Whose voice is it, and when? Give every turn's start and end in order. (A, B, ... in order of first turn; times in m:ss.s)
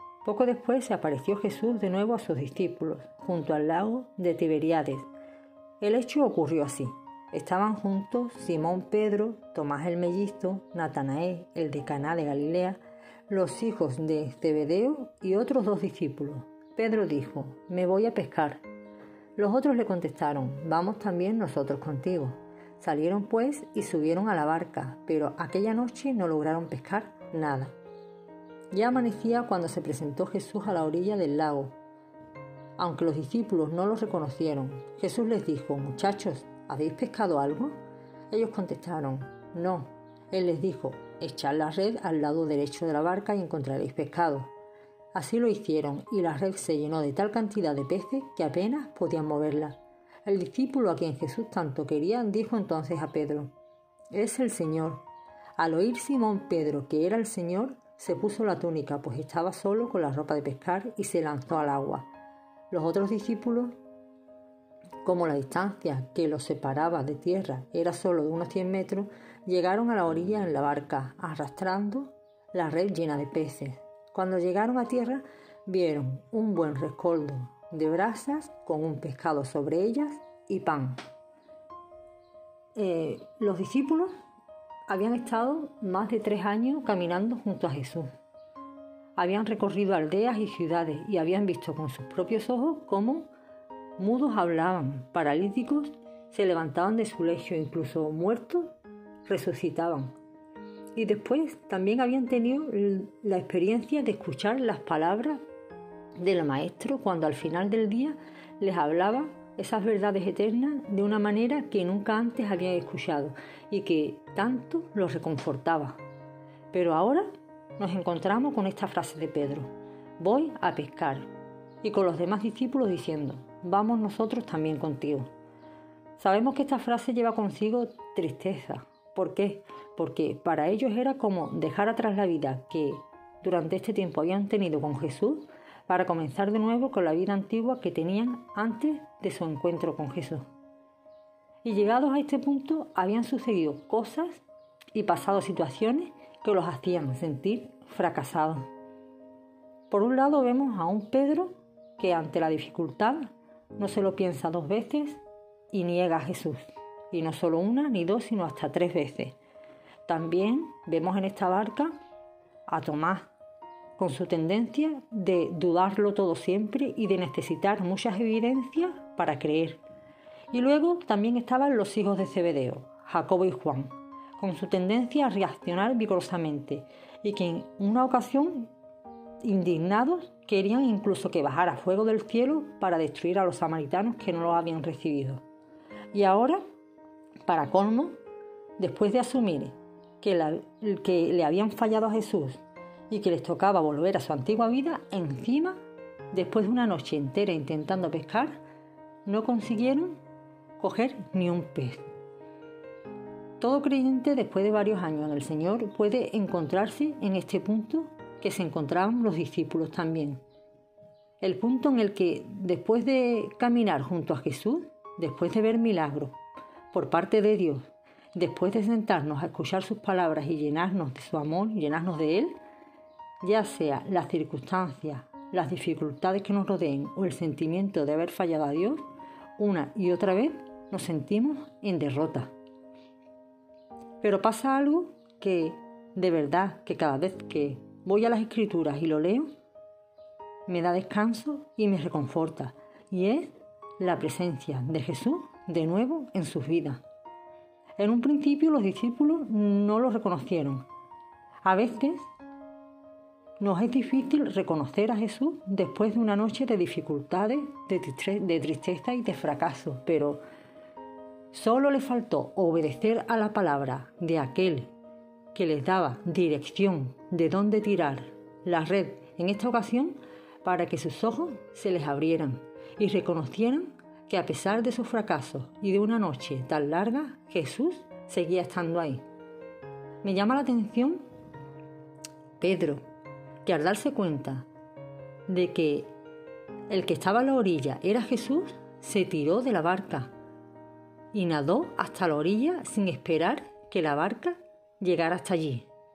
0:00.2-0:05.1 A
0:05.8-0:18.6 A
0:19.4-0:27.7 A
0:28.7-0:31.7 A
0:32.8-0:37.8 A
0:38.3-0:44.5 A
0:45.1-0:53.5 A
0:54.1-0:55.0 A
0:55.6-1:02.0 A
1:02.7-1:03.7 A
1:05.0-1:21.0 A
1:22.8-1:24.1 A
1:24.9-1:28.1 A
1:29.2-1:33.3 A
1:34.0-1:38.7 A
1:39.2-1:40.1 A
1:41.0-1:45.4 A
1:46.2-1:56.0 A
1:56.7-2:01.3 A
2:01.8-2:05.3 A
2:06.2-2:20.4 A
2:21.6-2:24.4 A
2:24.9-2:28.7 A
2:29.9-2:35.2 A
2:35.7-2:39.4 A
2:40.0-2:41.9 A
2:42.7-2:43.3 A
2:44.0-2:49.8 A
2:50.5-2:58.7 A
2:59.4-3:05.4 A
3:06.1-3:06.6 A
3:07.4-3:08.2 A
3:08.8-3:15.8 A
3:16.3-3:18.6 A
3:19.2-3:20.2 A
3:20.8-3:22.0 A
3:23.6-3:30.4 A
3:31.4-3:36.4 A
3:36.9-3:42.6 A
3:43.4-3:49.0 A
3:49.6-3:52.5 A
3:54.2-3:59.5 A
4:00.7-4:07.0 A
4:08.0-4:10.8 A
4:11.6-4:12.3 A
4:13.6-4:20.4 A
4:21.5-4:24.9 A
4:25.5-4:39.2 A
4:40.2-4:41.2 A
4:42.6-4:43.0 A
4:43.6-4:44.6 A
4:45.5-4:46.1 A
4:46.9-4:50.3 A
4:51.3-4:55.9 A